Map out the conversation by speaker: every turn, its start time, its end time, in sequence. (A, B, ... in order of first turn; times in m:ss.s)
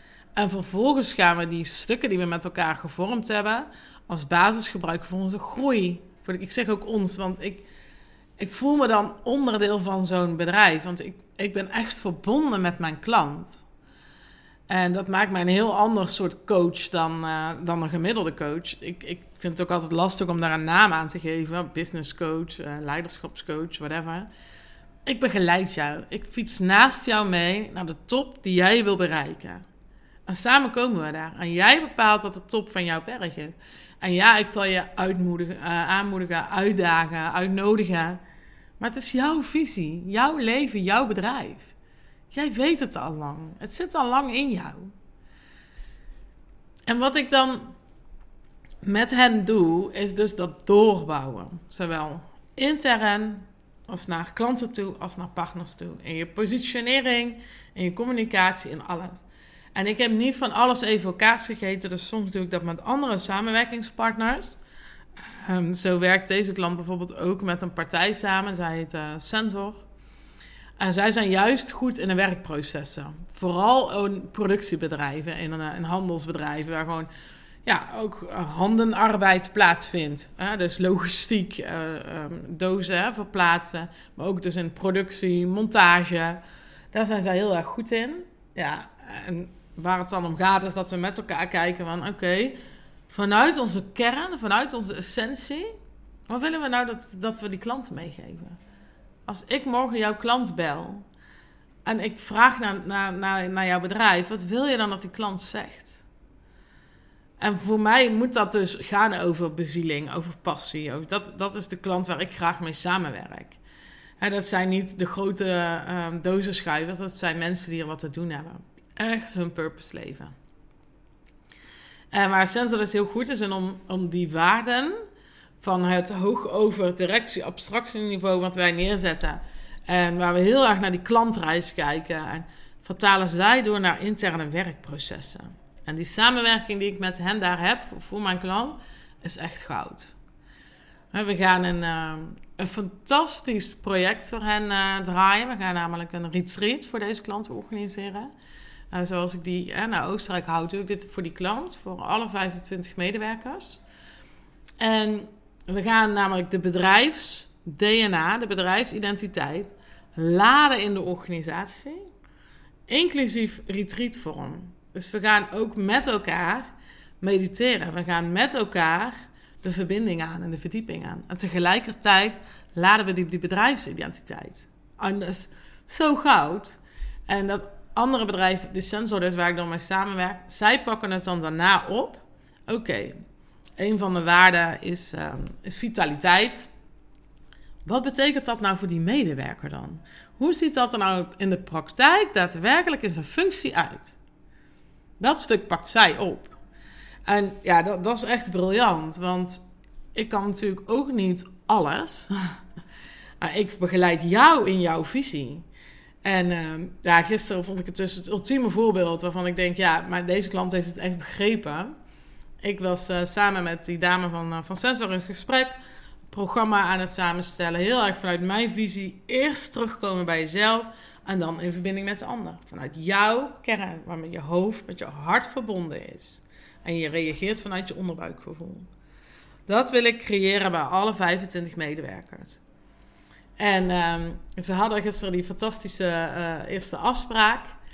0:00.4-0:07.6 A
0:08.4-0:13.6 A
0:14.7-0:24.3 A
0:25.1-0:29.6 A
0:30.3-0:38.2 A
0:38.8-0:41.8 A
0:42.3-0:44.9 A
0:46.9-0:47.8 A
0:48.8-1:04.6 A
1:05.4-1:09.8 A
1:10.8-1:17.1 A
1:17.6-1:26.4 A
1:26.9-1:32.6 A
1:33.1-1:35.7 A
1:36.3-1:38.6 A
1:39.3-1:41.1 A
1:41.8-1:46.0 A
1:47.4-1:53.6 A
1:54.2-2:00.3 A
2:02.1-2:05.0 A
2:05.6-2:20.2 A
2:21.1-2:28.3 A
2:28.9-2:33.8 A
2:34.8-2:42.0 A
2:42.9-3:03.2 A
3:03.8-3:06.7 A
3:07.8-3:14.2 A
3:15.2-3:16.6 A
3:17.3-3:22.6 A
3:23.4-3:25.7 A
3:26.2-3:31.9 A
3:32.6-3:48.9 A
3:49.7-3:52.6 A
3:53.6-3:57.8 A